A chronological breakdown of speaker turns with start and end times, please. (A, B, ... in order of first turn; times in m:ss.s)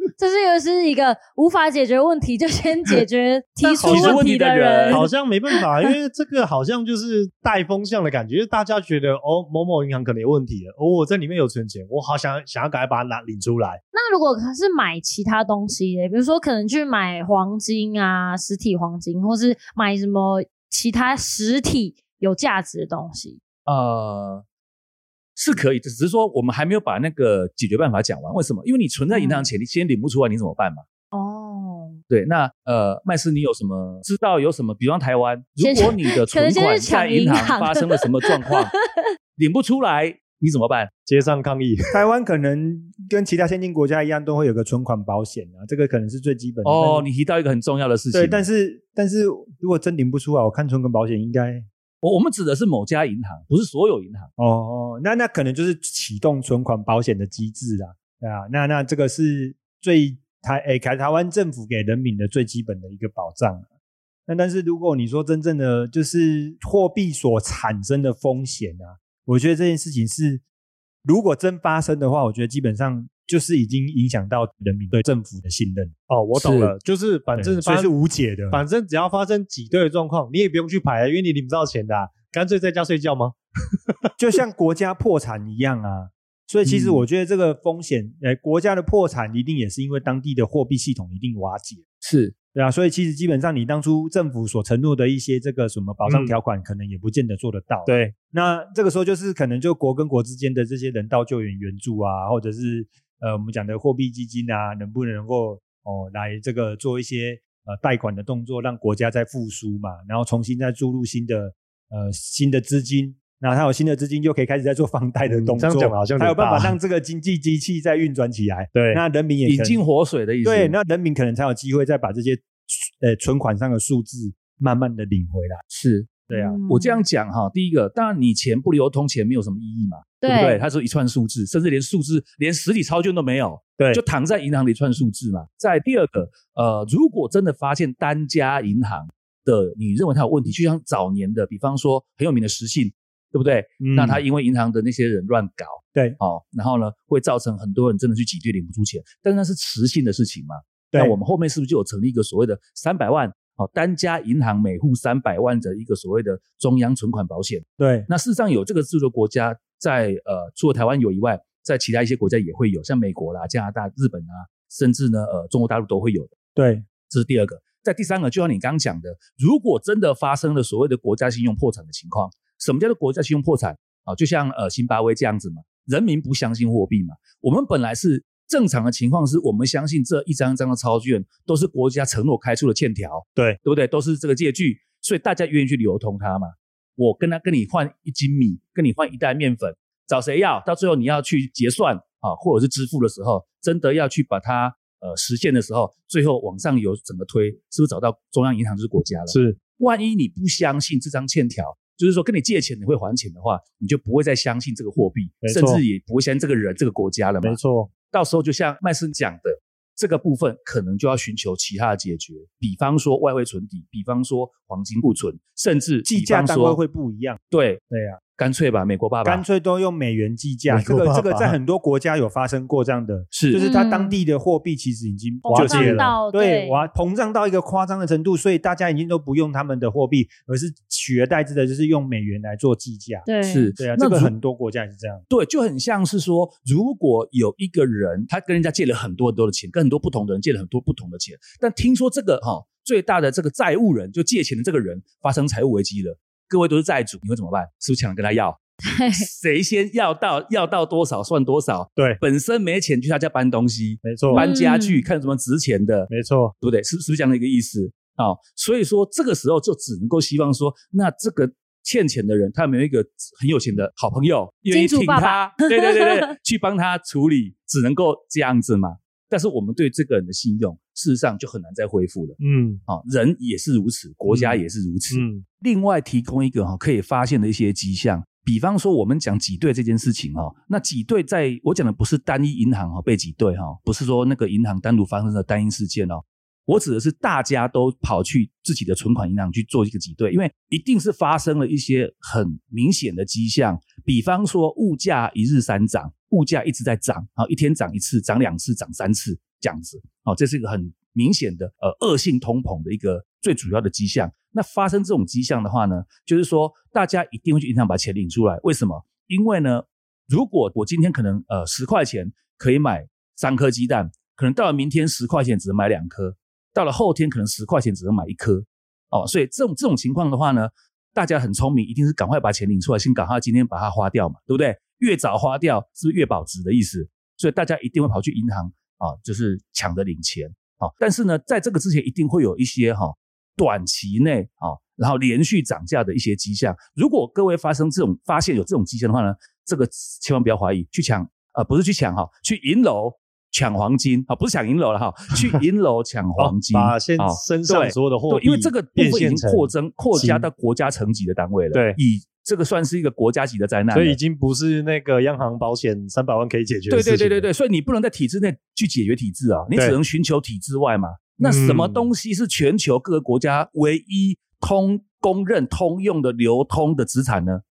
0:00.2-0:05.6 A
0:03.7-0:04.2 B
0:03.8-0:05.1 C
0:04.9-0:13.8 B
0:13.9-0:23.4 A
0:23.7-0:24.4 C
0:25.4-0:30.8 C
0:29.1-0:29.5 A
0:31.1-0:32.0 A
0:32.1-0:38.7 C
0:35.6-0:39.0 A
0:39.4-0:40.9 C
0:41.1-0:41.9 B
0:41.9-0:47.1 D
0:46.6-0:48.4 C
0:48.1-0:51.7 D
0:52.0-0:54.3 C
0:54.4-1:03.7 D
1:04.3-1:10.4 D
1:11.0-1:15.9 D
1:16.1-1:17.9 B
1:16.4-1:16.8 C
1:17.4-1:18.6 D
1:18.5-1:23.4 B
1:24.2-1:31.8 D
1:26.7-1:27.0 B
1:32.0-1:32.4 C
1:32.5-1:59.8 D
1:36.1-1:36.4 B
1:37.9-1:38.2 B
1:55.2-1:56.8 B
1:58.7-1:59.0 B
1:59.4-2:00.8 C
2:00.4-2:05.6 D
2:05.7-2:06.1 C
2:06.3-2:06.6 D
2:06.3-2:07.0 A
2:06.7-2:46.3 C
2:10.2-2:10.6 A
2:23.8-2:24.2 D
2:37.8-2:38.1 D
2:46.6-2:46.9 D
2:47.1-3:36.8 C
3:19.3-3:19.6 B
3:25.4-3:25.8 B
3:27.4-3:27.9 B
3:36.0-3:38.2 D
3:37.5-3:37.8 C
3:38.4-3:39.4 C
3:39.2-3:55.3 D
3:40.7-3:41.6 B
3:43.3-3:43.6 C
3:43.6-3:44.2 A
3:45.4-3:46.9 A
3:45.5-3:46.2 B
3:53.3-3:53.7 A
3:53.4-3:54.4 C
3:55.3-4:08.6 C
4:08.8-4:09.3 A
4:09.1-4:16.1 C
4:14.0-4:14.4 B
4:14.3-4:15.1 A
4:16.1-4:16.5 B
4:16.6-5:54.2 C
4:24.7-4:26.0 A
4:32.4-4:32.8 B
4:34.3-4:35.4 B
5:46.4-5:50.5 B
5:51.7-5:52.0 B
5:53.9-5:57.5 B
5:56.9-6:07.6 C
5:59.7-6:00.0 B
6:01.4-6:02.1 B